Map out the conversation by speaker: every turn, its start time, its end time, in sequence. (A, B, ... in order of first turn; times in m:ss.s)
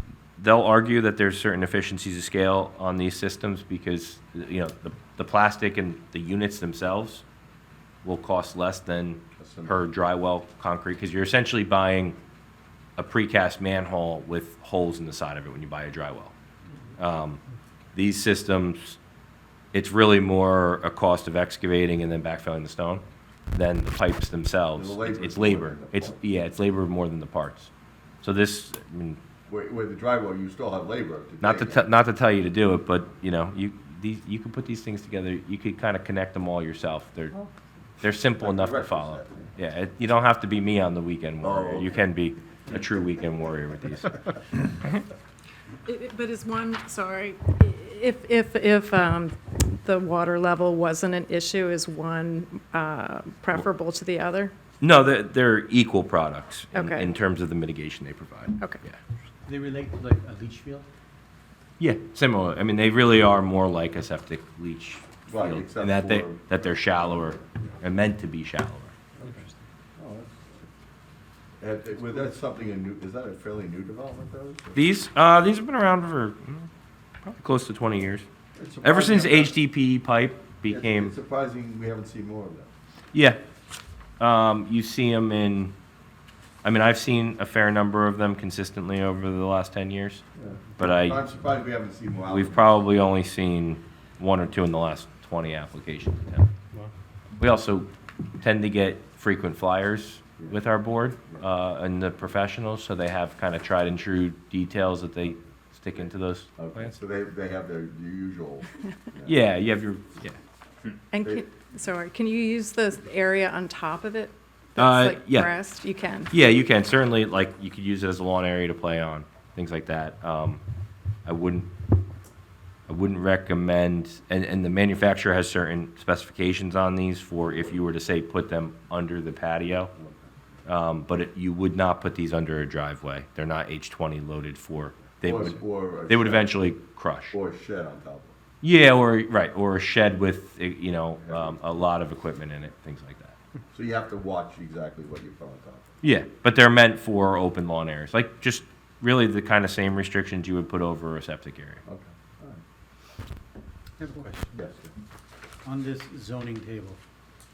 0:00.4-0:07.2 A
0:08.0-0:12.2 A
0:09.4-0:09.8 B
0:13.0-0:16.3 A
0:17.0-0:17.4 A
0:17.9-0:19.0 A
0:19.7-0:27.7 A
0:24.7-0:26.2 B
0:28.2-0:29.2 A
0:29.5-0:31.9 B
0:31.4-0:37.4 A
0:38.0-0:44.3 A
0:38.4-0:39.5 B
0:41.4-0:42.0 B
0:45.8-0:54.5 C
0:54.8-0:59.0 A
0:56.7-0:57.1 C
0:59.4-1:00.9 D
1:01.8-1:08.9 A
1:05.3-1:07.7 B
1:09.2-1:09.5 D
1:10.0-1:10.6 B
1:11.6-1:14.8 B
1:14.7-1:16.7 A
1:17.2-1:18.2 A
1:18.5-1:19.6 B
1:18.8-1:21.1 A
1:20.7-1:22.7 B
1:23.1-1:23.4 A
1:24.2-1:25.7 A
1:26.6-1:30.2 A
1:30.4-1:32.6 B
1:30.8-1:31.2 A
1:32.3-1:36.5 A
1:37.4-1:37.9 A
1:38.4-1:46.9 A
1:46.6-1:49.4 B
1:49.2-1:50.4 A
1:51.1-1:56.3 C
1:54.8-1:55.5 A
1:56.3-2:00.6 A
2:01.2-2:01.7 A
2:02.9-2:09.9 A
2:10.0-2:10.3 B
2:10.6-2:17.4 A
2:15.2-2:16.6 B
2:17.3-2:18.4 B
2:18.6-2:23.4 A
2:21.2-2:21.7 B
2:23.7-2:25.9 B
2:26.0-2:31.8 A
2:31.8-2:32.6 B
2:34.0-2:34.5 D
2:34.5-2:34.9 B
2:35.6-2:37.0 D